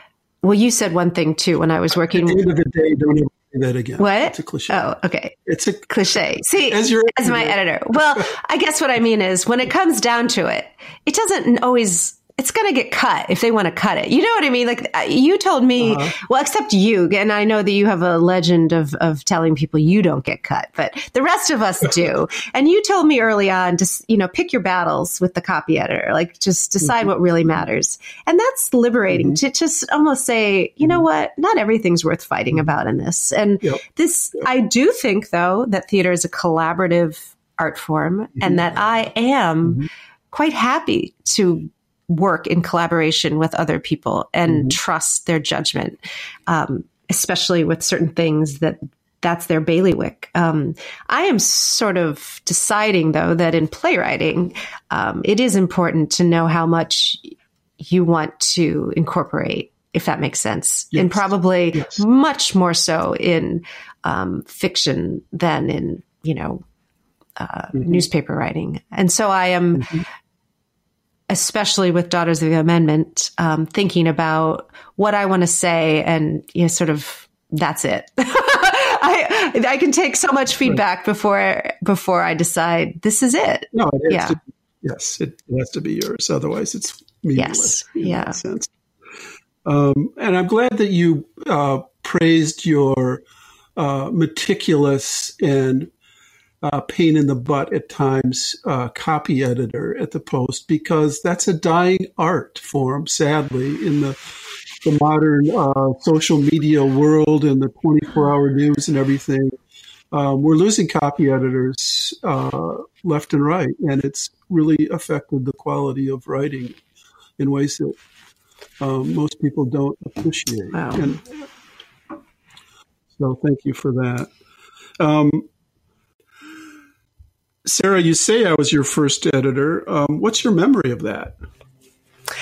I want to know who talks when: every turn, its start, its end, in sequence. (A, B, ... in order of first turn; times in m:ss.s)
0:00.4-0:02.4 A
0:02.1-0:04.8 B
0:04.0-1:06.6 A
0:05.4-0:05.9 B
0:06.5-0:07.6 B
0:15.8-0:16.1 B
1:00.9-1:02.0 B
1:07.4-1:10.0 A
1:11.3-1:24.4 A
1:23.7-1:28.7 B
1:27.3-1:28.4 A
1:29.6-1:33.2 B
1:33.8-1:35.9 B
1:36.6-1:44.2 B
1:44.8-1:49.5 B
1:50.1-1:56.8 B
1:57.4-1:58.0 B
1:58.8-2:01.3 B
2:00.7-2:01.1 A
2:03.2-2:04.3 B
2:05.0-2:05.5 B
2:07.6-2:11.4 B